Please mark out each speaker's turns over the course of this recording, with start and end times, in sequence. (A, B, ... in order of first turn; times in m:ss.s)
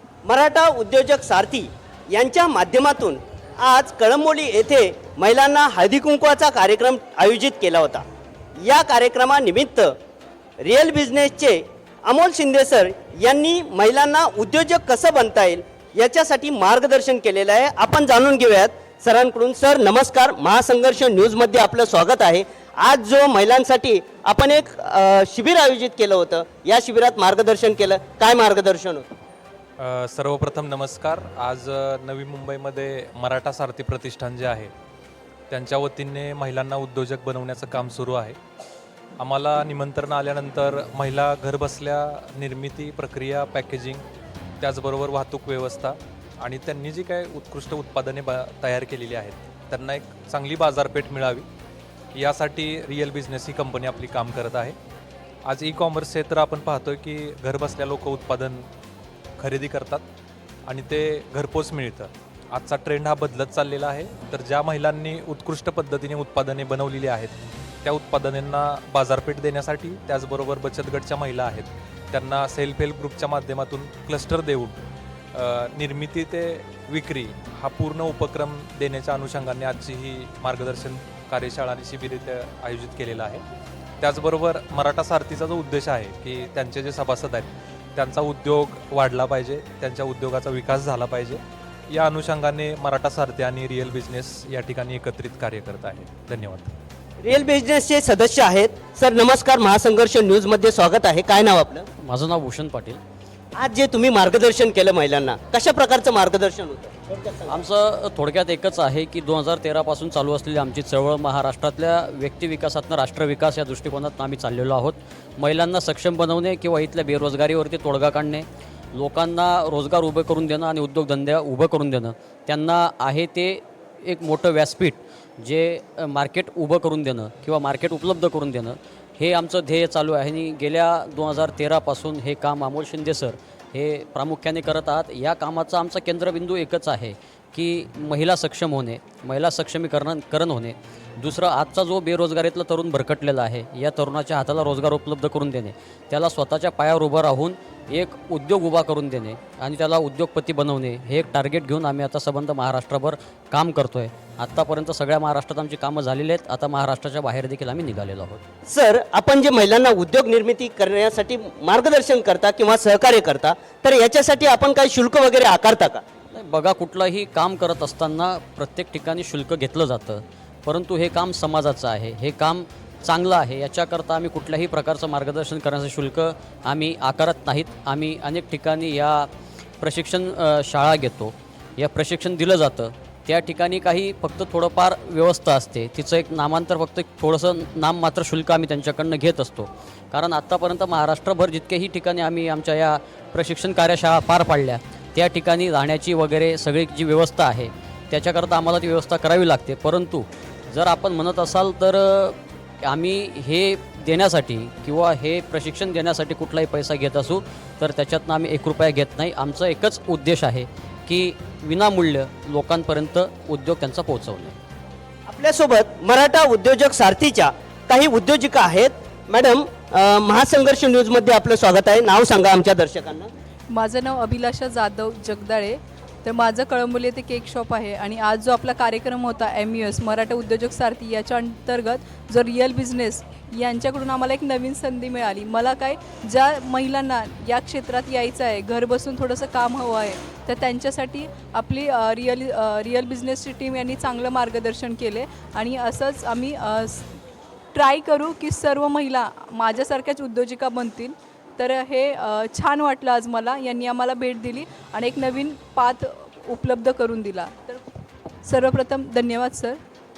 0:00.2-0:08.0 A
0:08.6-0:09.9 A
0:10.6-0:29.0 A
0:29.8-0:34.7 B
0:35.5-0:38.4 B
0:39.2-0:44.0 B
0:44.6-0:51.4 B
0:52.1-0:54.8 B
0:55.5-0:58.7 B
0:59.4-1:00.0 B
1:00.7-1:14.8 B
1:15.3-1:23.4 B
1:24.0-1:36.7 B
1:37.2-1:41.8 A
1:42.0-1:43.0 C
1:43.6-1:47.6 A
1:47.5-2:38.4 C
2:38.7-2:46.0 A
2:46.3-3:34.6 C
3:35.3-3:43.3 A
3:43.7-4:07.1 D
4:07.7-4:17.8 D
4:18.4-4:19.8 D